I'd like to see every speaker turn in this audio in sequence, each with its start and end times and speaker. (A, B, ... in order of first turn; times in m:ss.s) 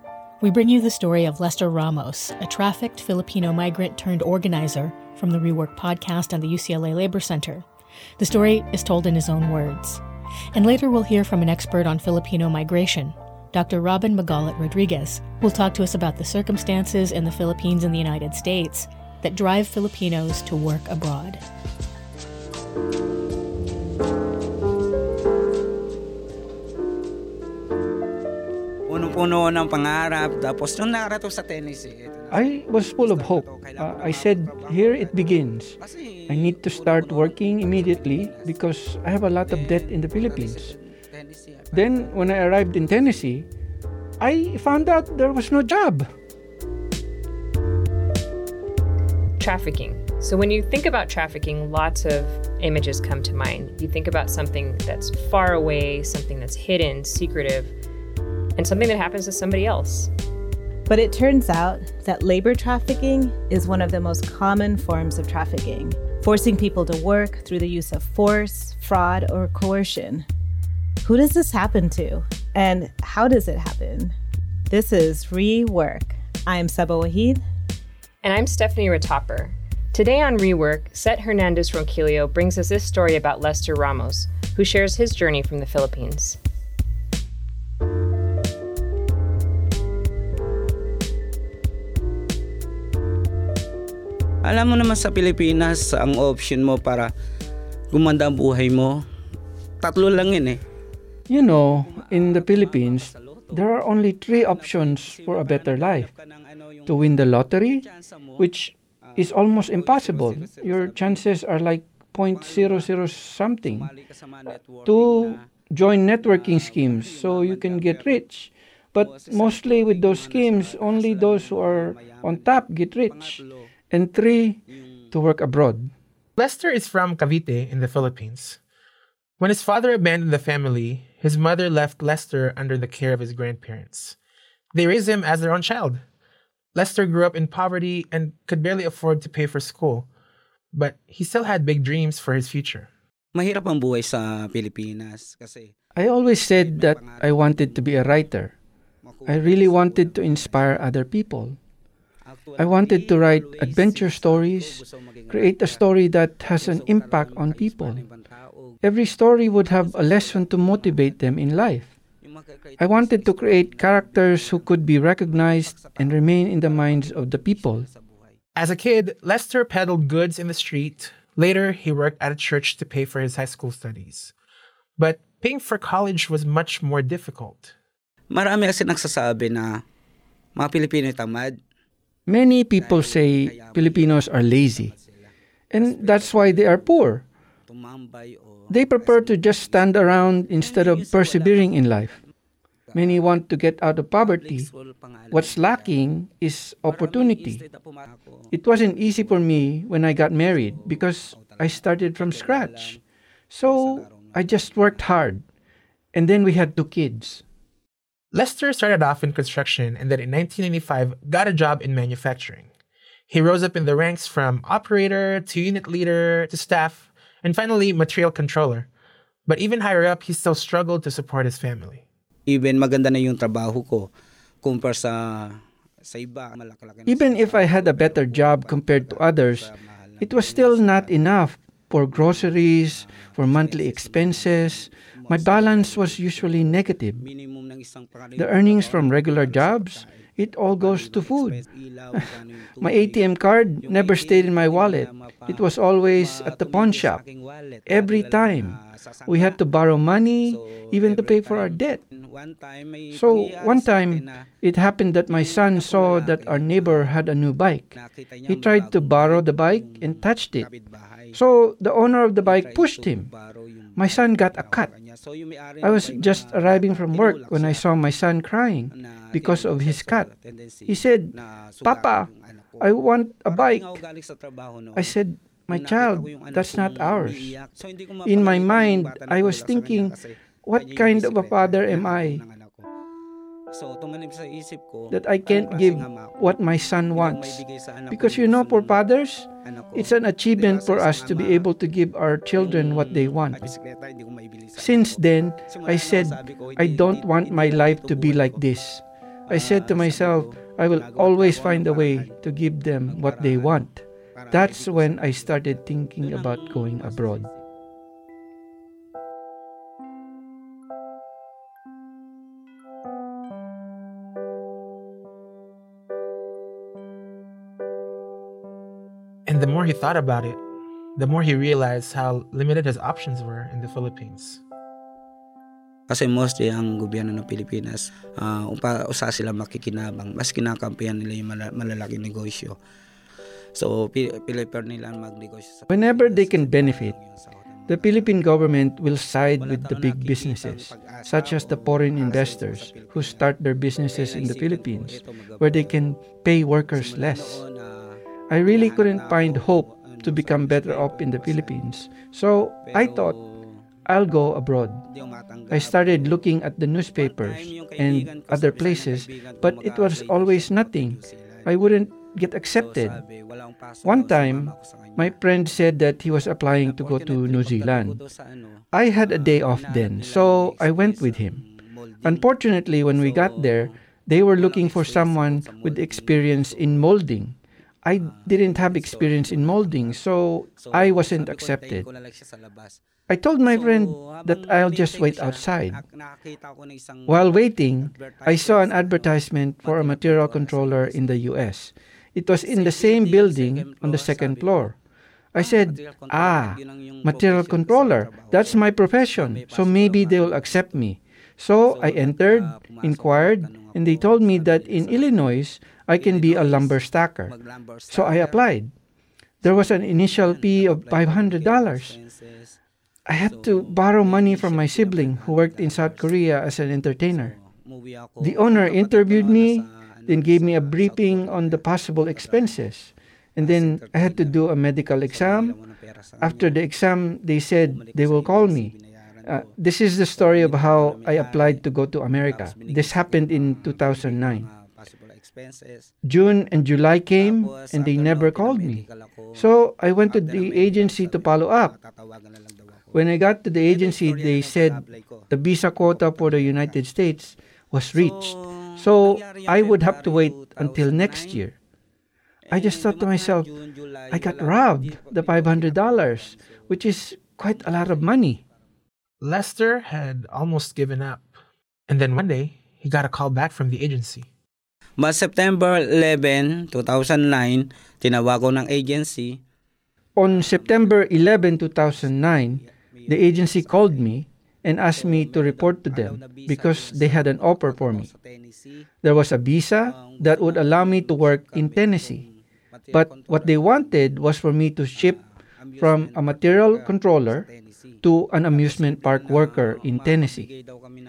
0:00.4-0:07.6 A
0:08.2-0:10.0 A
0:10.5-0:21.4 A
0:28.9-0:32.4 B
0:32.3-0:35.8 C
0:33.4-0:33.8 B
0:35.8-0:38.5 B
0:36.3-0:40.7 C
0:39.5-0:41.8 B
0:41.7-0:43.5 C
0:44.2-0:46.1 C
0:49.4-0:57.7 D
0:58.6-1:00.1 D
1:00.9-1:10.3 E
1:11.0-1:14.1 E
1:14.7-1:17.4 E
1:18.2-1:26.4 D
1:34.4-1:37.1 B
1:37.9-1:39.0 B
1:39.8-1:40.6 B
1:41.3-1:46.1 C
1:46.8-1:53.9 C
1:54.2-1:54.6 B
1:54.8-2:05.9 C
2:06.4-2:08.6 F
2:09.4-2:14.2 F
2:14.7-2:16.0 F
2:16.7-2:20.1 F
2:20.7-2:22.9 F
2:23.3-2:25.7 B
2:26.0-2:28.5 C
2:29.2-2:31.6 C
2:32.6-2:38.0 C
2:38.8-2:41.9 C
2:42.2-2:43.8 B
2:42.8-2:47.9 C
2:47.9-2:48.3 B
2:48.5-2:54.3 F
2:55.0-2:57.7 F
2:58.3-2:59.8 B
3:00.6-3:01.6 B
3:02.3-3:04.9 C
3:05.7-3:07.2 C
3:07.7-3:08.6 B
3:08.7-3:12.2 C
3:12.9-3:14.7 C
3:15.0-3:15.3 B
3:15.3-3:17.6 C
3:17.1-3:18.2 B
3:18.5-3:23.0 C
3:23.5-3:25.4 C
3:26.1-3:27.4 C
3:28.3-3:32.7 F
3:33.3-3:38.9 F
3:39.4-3:42.0 F
3:42.5-3:44.1 B
3:44.6-3:47.1 B
3:47.0-3:57.2 C
3:58.3-4:07.2 C
4:07.9-4:12.0 C
4:13.1-4:20.7 C
4:21.3-4:23.3 C
4:24.0-4:24.9 C
4:25.8-4:30.3 C
4:30.9-4:34.0 C
4:34.9-4:37.6 C
4:37.3-4:37.6 B
4:38.2-4:42.4 C
4:43.7-4:45.0 B
4:45.1-4:53.7 C
4:53.9-4:54.7 B
4:54.8-5:07.5 C
5:19.4-5:20.6 F
5:21.2-5:24.6 F
5:26.1-5:32.8 B
5:33.7-5:35.8 B
5:35.9-5:37.2 C
5:37.9-5:47.6 C
5:40.4-5:41.2 B
5:44.7-5:45.0 B
5:48.5-5:53.4 C
5:54.1-5:55.0 C
5:55.2-5:55.7 B
5:55.7-6:03.2 C
5:57.8-5:58.9 B
6:03.4-6:04.7 B
6:04.0-6:08.2 C
6:07.1-6:08.8 B
6:08.9-6:11.6 C
6:12.2-6:22.1 C
6:21.2-6:23.0 B
6:23.3-6:26.0 C
6:26.3-6:27.3 B
6:27.2-6:35.0 C
6:33.1-6:34.0 B
6:35.5-6:47.6 C
6:36.0-6:37.6 B
6:47.9-6:48.3 B
6:48.1-6:48.9 C
6:49.6-6:52.2 C
6:53.3-6:57.5 C
6:58.4-7:05.8 C
7:06.4-7:14.7 C
7:15.0-7:16.1 B
7:16.2-7:22.0 C
7:23.1-7:31.8 C
7:28.5-7:31.4 B
7:32.7-7:34.7 B
7:32.7-7:33.8 C
7:34.3-7:38.6 C
7:39.4-7:41.5 F
7:42.1-7:44.5 F
7:45.2-7:49.6 B
7:50.4-7:58.3 C
7:59.2-8:02.4 C
8:03.1-8:05.4 C
8:06.0-8:07.7 C
8:08.2-8:10.7 C